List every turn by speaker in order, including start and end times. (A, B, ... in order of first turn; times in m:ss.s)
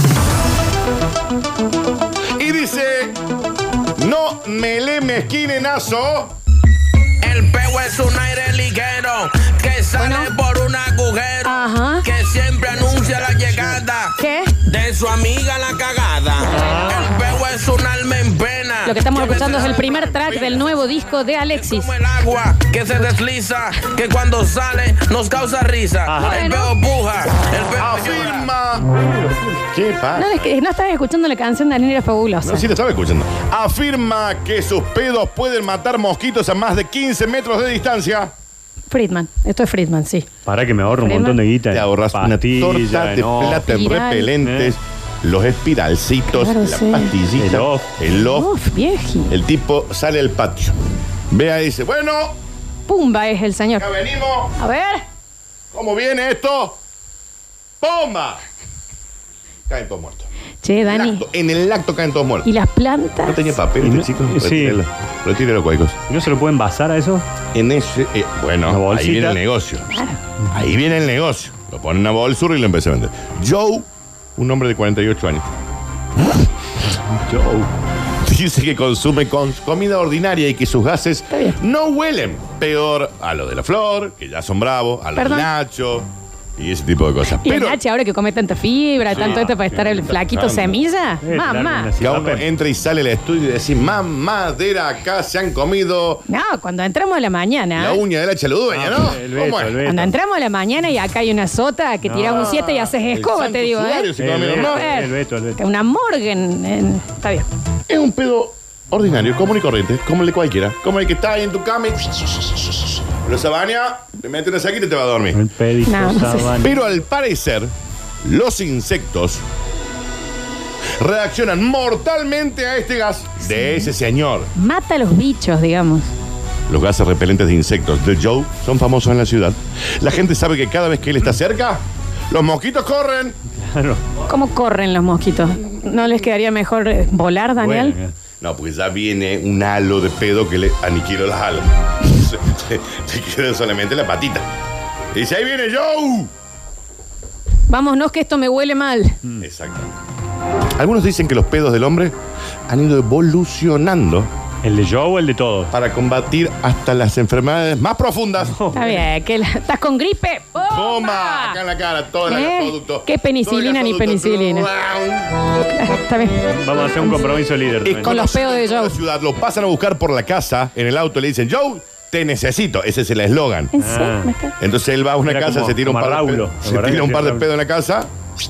0:02.4-0:03.2 A
0:04.0-0:06.4 A
0:07.2-0:19.7 B
0:09.9-0:10.3 C
0:11.4-0:12.0 C
0:14.2-0:14.6 C
0:16.6-0:16.9 D
0:18.8-0:21.9 C
0:19.1-0:20.8 A
0:21.5-0:28.5 B
0:26.1-0:26.4 D
0:26.1-0:26.8 C
0:27.8-0:29.0 A
0:29.5-0:30.5 A
0:30.1-0:32.7 C
0:32.4-0:38.3 A
0:38.9-0:40.3 C
0:40.4-0:43.7 D
0:41.0-0:41.4 C
0:41.7-0:48.5 A
0:43.6-0:44.3 C
0:44.4-0:44.7 D
0:46.3-0:47.2 C
0:47.3-0:47.9 D
0:48.1-0:49.3 C
0:49.3-0:50.7 A
0:51.3-0:52.4 A
0:52.9-0:53.9 C
0:53.8-0:54.6 A
0:54.6-0:55.0 C
0:55.7-0:56.8 A
0:57.8-0:58.4 A
0:59.7-1:00.3 A
1:00.6-1:01.2 C
1:00.8-1:02.5 A
1:02.4-1:03.6 C
1:03.2-1:06.0 A
1:03.8-1:04.8 D
1:06.1-1:07.2 D
1:07.5-1:09.9 A
1:08.7-1:09.4 D
1:09.9-1:10.2 C
1:10.5-1:15.4 A
1:17.0-1:17.7 D
1:18.2-1:27.8 A
1:21.3-1:21.6 C
1:25.2-1:25.5 C
1:27.4-1:31.9 C
1:29.1-1:29.5 A
1:29.1-1:30.1 D
1:30.2-1:30.8 A
1:31.2-1:32.5 D
1:32.0-1:36.2 A
1:36.3-1:38.0 C
1:37.8-1:39.8 A
1:38.7-1:40.2 D
1:39.8-1:47.5 C
1:42.0-1:42.6 D
1:42.2-1:44.9 A
1:44.2-1:45.6 D
1:47.9-1:55.4 A
1:55.3-1:56.9 D
1:55.8-1:56.6 C
1:56.6-1:57.7 A
1:58.2-1:59.4 A
2:01.0-2:04.5 A
2:03.4-2:03.9 C
2:04.6-2:06.1 C
2:06.7-2:13.4 A
2:13.5-2:14.0 D
2:14.3-2:18.0 C
2:17.6-2:18.1 D
2:18.4-2:24.4 A
2:25.1-2:26.3 A
2:27.7-2:29.1 C
2:29.4-2:30.0 A
2:30.7-2:32.1 A
2:32.7-2:34.3 A
2:34.6-2:35.7 D
2:35.7-2:38.6 A
2:38.5-2:39.1 D
2:38.7-2:41.6 C
2:40.6-2:45.4 A
2:42.2-2:44.7 C
2:45.6-2:46.5 C
2:46.4-2:48.2 D
2:47.8-2:53.7 A
2:48.0-2:49.0 C
2:53.7-2:54.5 C
2:53.8-2:54.3 D
2:54.6-2:58.1 A
2:55.2-2:57.5 D